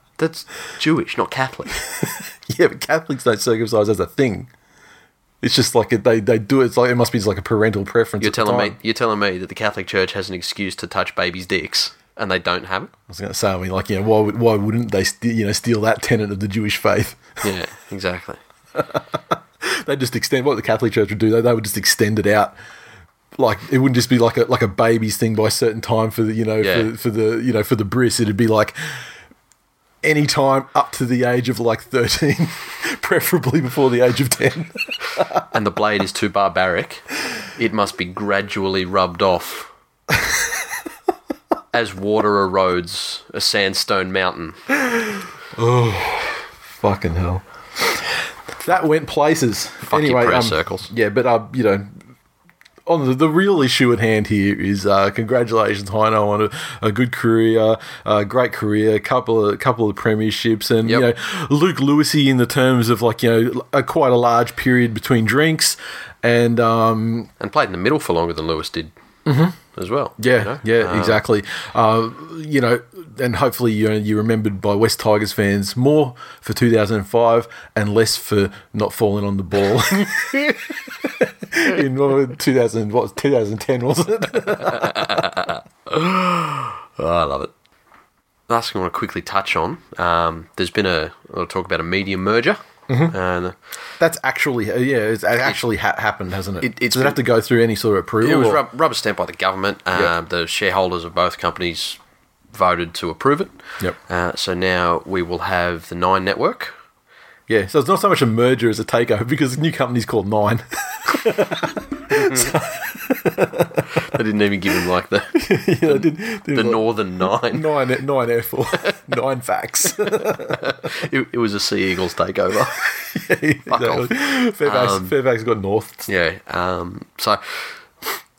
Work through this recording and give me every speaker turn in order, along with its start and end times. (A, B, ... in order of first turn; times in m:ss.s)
0:00.2-0:01.8 A
0:01.9-0:04.5 B
0:05.4-0:08.8 B
0:08.2-0:12.9 A
0:13.1-0:17.4 B
0:17.4-0:18.4 A
0:18.8-0:22.6 B
0:23.4-0:28.8 B
0:26.6-0:26.9 A
0:30.0-0:35.4 B
0:35.5-0:39.7 A
0:41.7-0:44.6 A
0:45.6-0:51.9 B
0:49.9-0:50.9 A
0:52.9-1:07.3 B
1:07.4-1:08.9 A
1:09.3-1:09.6 B
1:09.8-1:11.2 A
1:10.2-1:25.3 B
1:24.7-1:27.5 A
1:28.5-1:33.6 A
1:32.9-1:33.2 B
1:34.0-1:38.6 B
1:36.6-1:37.2 A
1:38.2-1:42.0 A
1:42.5-1:46.7 A
1:47.5-1:54.0 B
1:52.1-1:52.6 A
1:53.9-1:57.7 A
1:55.3-2:00.9 B
2:00.1-2:02.9 A
2:02.9-2:06.1 B
2:03.7-2:05.2 A
2:06.1-2:07.7 A